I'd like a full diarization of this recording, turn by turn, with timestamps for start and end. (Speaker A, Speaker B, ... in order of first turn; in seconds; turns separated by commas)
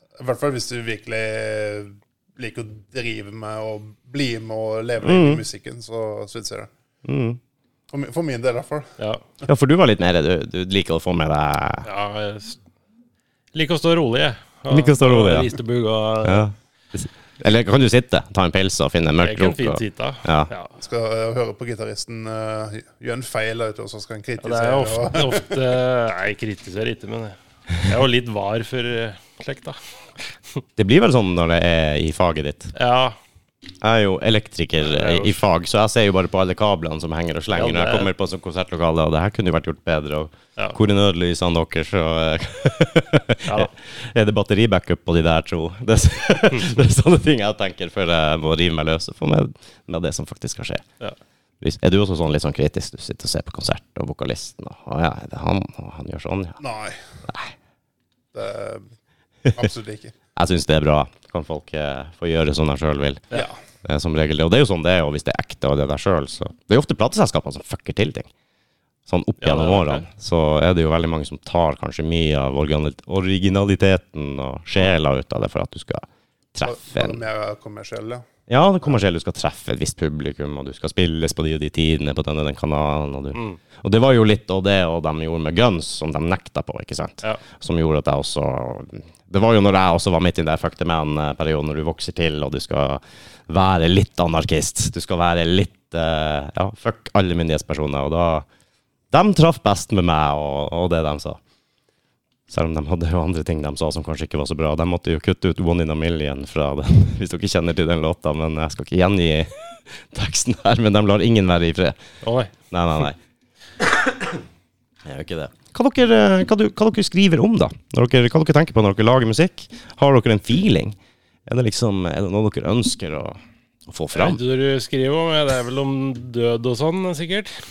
Speaker A: 0.2-6.7, Speaker B: 5.0-5.4, Speaker B: 7.0-7.4, Speaker A: 7.9-9.0, Speaker B: 9.4-11.9, Speaker C: 11.8-12.6, Speaker C: 13.5-16.5, Speaker B: 14.7-15.5, Speaker B: 16.2-20.5, Speaker C: 19.2-20.8, Speaker A: 20.8-25.6, Speaker C: 24.4-30.6, Speaker B: 30.8-32.7, Speaker C: 32.8-33.2, Speaker B: 33.8-50.8, Speaker C: 34.8-35.4, Speaker C: 37.5-38.1, Speaker B: 51.6-56.6, Speaker A: 56.6-57.0, Speaker B: 57.3-57.5, Speaker A: 58.3-58.9, Speaker A: 59.5-60.1, Speaker B: 60.4-63.2, Speaker A: 63.3-63.6, Speaker B: 63.8-68.3, Speaker B: 69.1-77.2, Speaker C: 69.4-70.0, Speaker A: 76.6-78.2, Speaker B: 78.5-98.5, Speaker C: 83.3-83.6, Speaker B: 99.1-101.4, Speaker B: 102.5-112.0, Speaker C: 112.2-112.5, Speaker B: 112.7-113.2, Speaker B: 115.0-124.4, Speaker C: 124.1-127.5